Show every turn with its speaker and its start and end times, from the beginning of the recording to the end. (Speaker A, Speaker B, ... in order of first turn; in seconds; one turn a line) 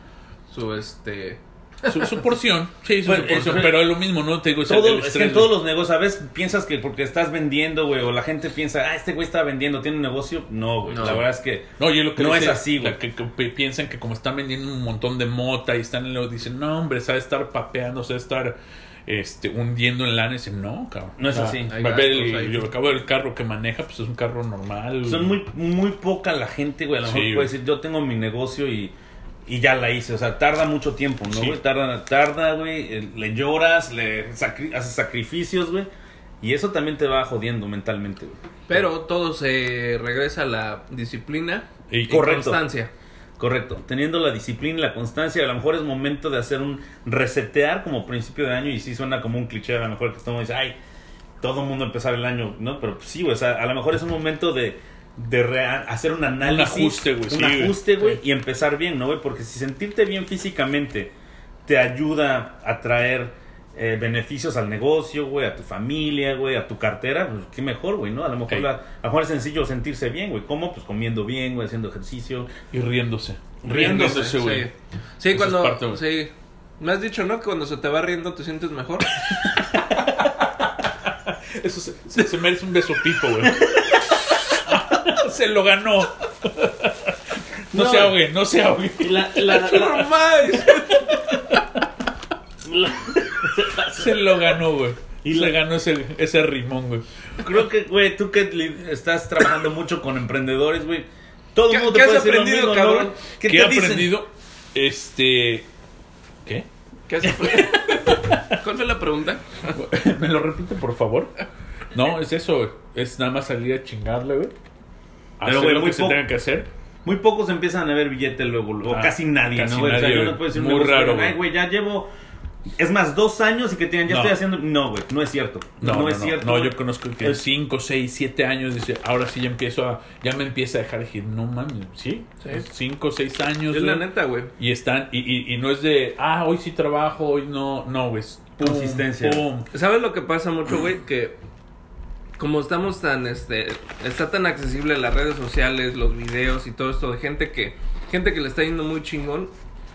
Speaker A: 0.5-2.3
Speaker B: 1.9-5.6
Speaker C: 3.0-4.0
Speaker C: 4.6-13.0
Speaker A: 10.9-11.2
Speaker B: 11.0-11.2
Speaker B: 11.8-25.3
Speaker C: 21.2-21.8
Speaker A: 21.7-22.7
Speaker C: 25.0-28.9
Speaker B: 27.0-27.5
Speaker C: 29.4-35.9
Speaker B: 31.3-31.6
Speaker C: 36.4-38.8
Speaker A: 38.7-42.9
Speaker B: 41.9-42.3
Speaker C: 42.1-42.6
Speaker C: 43.4-50.8
Speaker C: 51.4-61.1
Speaker B: 56.4-57.8
Speaker C: 61.6-72.5
Speaker B: 72.7-74.7
Speaker C: 73.6-74.3
Speaker A: 73.7-79.1
Speaker B: 75.3-76.0
Speaker B: 80.1-80.4
Speaker B: 81.1-84.0
Speaker B: 84.7-87.1
Speaker B: 87.7-89.6
Speaker C: 87.7-88.2
Speaker C: 89.0-90.1
Speaker A: 89.4-91.6
Speaker B: 90.9-91.6
Speaker C: 92.6-94.3
Speaker B: 93.8-97.0
Speaker C: 95.2-95.5
Speaker C: 97.4-104.1
Speaker A: 101.7-103.2
Speaker B: 103.4-105.7
Speaker A: 107.1-109.8
Speaker B: 109.7-111.3
Speaker B: 111.9-114.5
Speaker B: 115.4-116.7
Speaker C: 115.4-116.2
Speaker C: 117.0-122.1
Speaker B: 118.9-121.4
Speaker C: 122.8-127.4
Speaker B: 124.1-124.4
Speaker B: 125.8-134.0
Speaker A: 133.7-134.5
Speaker B: 134.6-139.7
Speaker C: 138.6-139.4
Speaker A: 139.7-141.4
Speaker A: 142.4-149.5